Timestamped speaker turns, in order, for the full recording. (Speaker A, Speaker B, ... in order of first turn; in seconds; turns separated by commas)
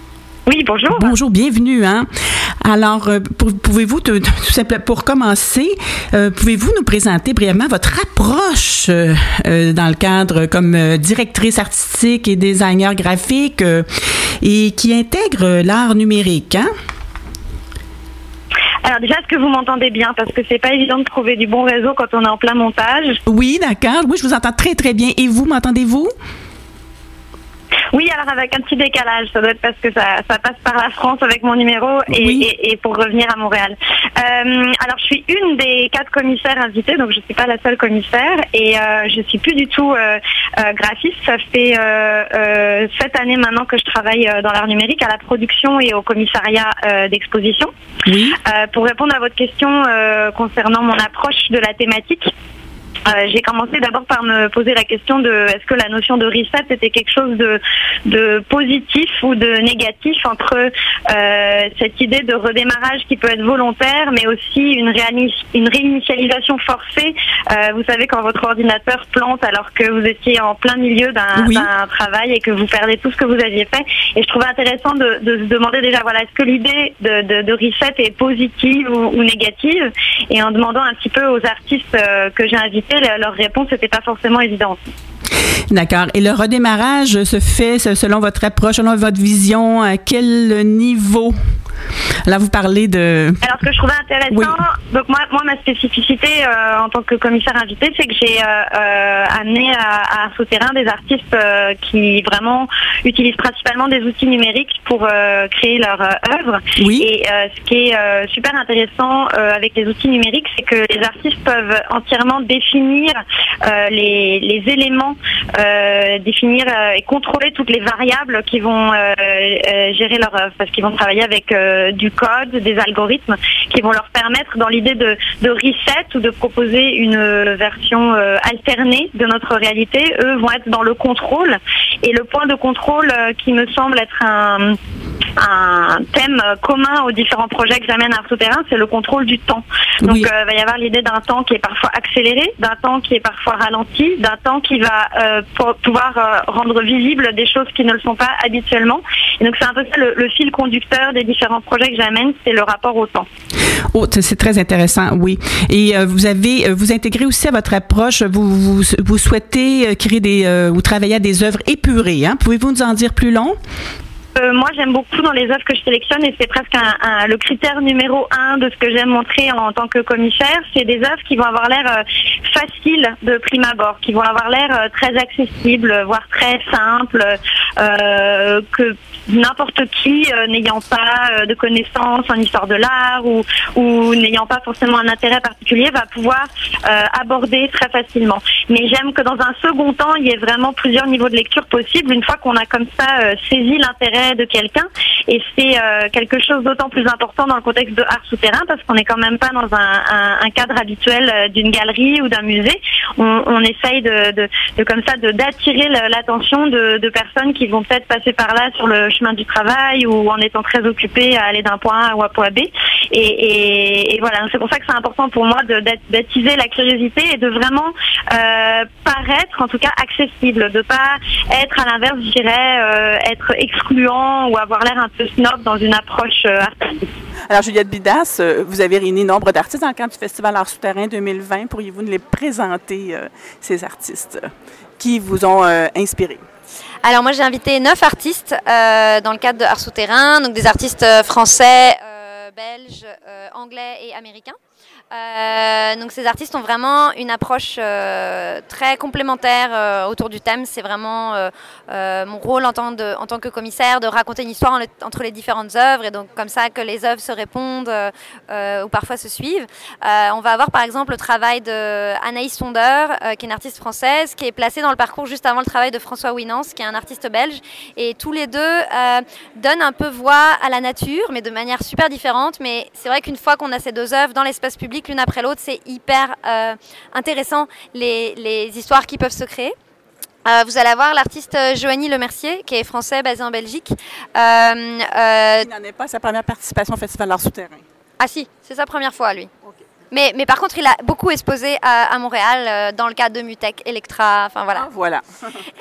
Speaker A: 0.5-1.1, Speaker B: 0.9-2.1, Speaker B: 2.6-13.9, Speaker B: 14.4-16.7, Speaker A: 18.8-23.2, Speaker B: 23.3-26.1, Speaker A: 27.9-47.7, Speaker B: 32.1-32.5, Speaker B: 48.0-48.4, Speaker A: 48.4-52.3, Speaker A: 53.0-84.8, Speaker B: 71.3-71.7, Speaker B: 85.7-91.3, Speaker B: 92.3-93.4, Speaker A: 93.4-134.8, Speaker B: 94.3-94.6, Speaker B: 106.8-107.1, Speaker A: 135.4-153.3, Speaker B: 140.0-140.3, Speaker B: 153.9-163.6, Speaker A: 164.3-227.1, Speaker B: 227.5-236.4, Speaker C: 237.0-244.6, Speaker C: 245.1-279.7, Speaker C: 280.4-285.7, Speaker B: 285.6-287.8, Speaker C: 288.2-289.5, Speaker C: 290.1-294.9, Speaker B: 294.7-295.6